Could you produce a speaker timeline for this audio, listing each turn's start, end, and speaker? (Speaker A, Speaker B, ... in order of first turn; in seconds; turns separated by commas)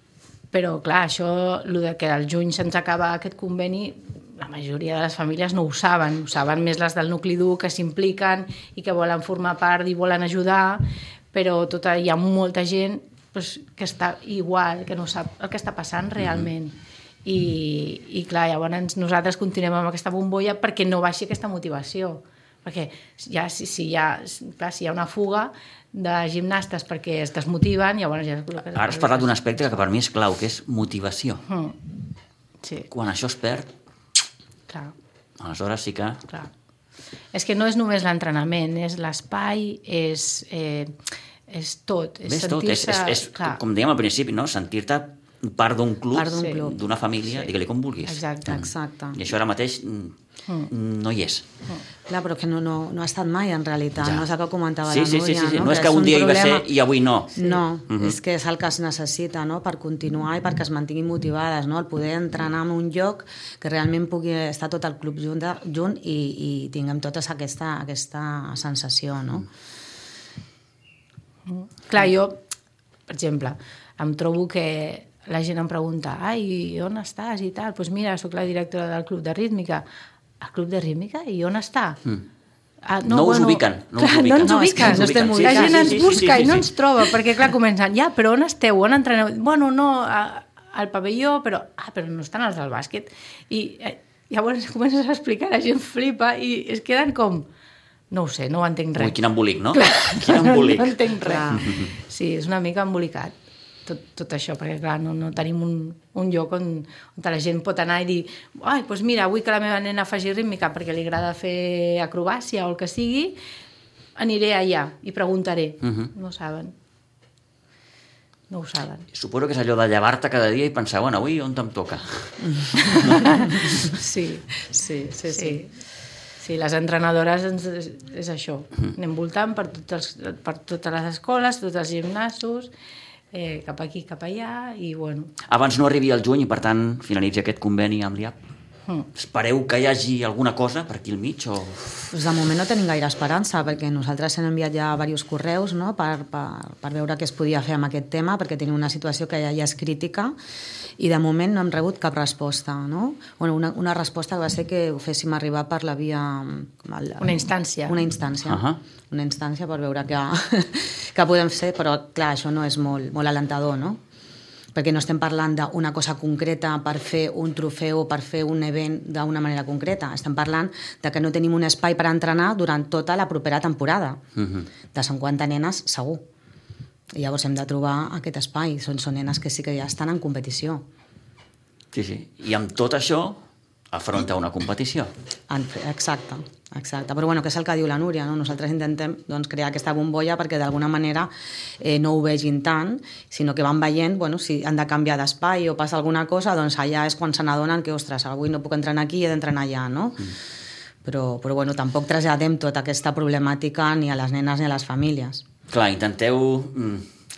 Speaker A: 0.5-29.7, Speaker B: 16.2-16.5, Speaker B: 28.7-31.4, Speaker A: 31.5-31.8, Speaker B: 32.9-33.7, Speaker A: 34.7-34.9, Speaker B: 35.4-36.2, Speaker A: 37.3-41.0, Speaker A: 41.5-43.6, Speaker B: 42.3-50.1, Speaker C: 46.1-46.8, Speaker A: 46.3-46.6, Speaker A: 48.0-48.6, Speaker C: 48.5-49.2, Speaker B: 50.7-51.5, Speaker C: 52.1-56.7, Speaker B: 54.9-57.3, Speaker C: 57.4-69.5, Speaker B: 57.9-58.1, Speaker A: 71.5-72.4, Speaker A: 73.1-79.8, Speaker A: 80.4-82.0, Speaker A: 82.8-97.5, Speaker B: 83.1-86.7, Speaker C: 84.4-86.1, Speaker A: 98.1-99.1, Speaker B: 99.0-101.0, Speaker A: 99.7-103.3, Speaker C: 101.2-101.6, Speaker B: 101.5-101.9, Speaker A: 103.8-113.4, Speaker A: 114.2-116.7, Speaker B: 115.8-116.1, Speaker A: 118.5-119.0, Speaker B: 119.1-123.9, Speaker A: 122.8-124.7, Speaker C: 124.7-125.6, Speaker A: 125.2-125.7, Speaker A: 126.4-132.7, Speaker A: 133.3-135.3, Speaker B: 135.5-138.3, Speaker B: 139.1-142.1, Speaker C: 142.1-150.3, Speaker C: 151.0-164.0, Speaker A: 157.2-158.0, Speaker B: 158.5-158.8, Speaker C: 164.7-174.2, Speaker B: 174.4-174.7, Speaker C: 174.9-176.2, Speaker C: 177.1-180.8, Speaker B: 181.9-183.4, Speaker B: 183.9-185.1, Speaker C: 185.5-200.3, Speaker C: 201.0-205.4, Speaker B: 205.7-207.1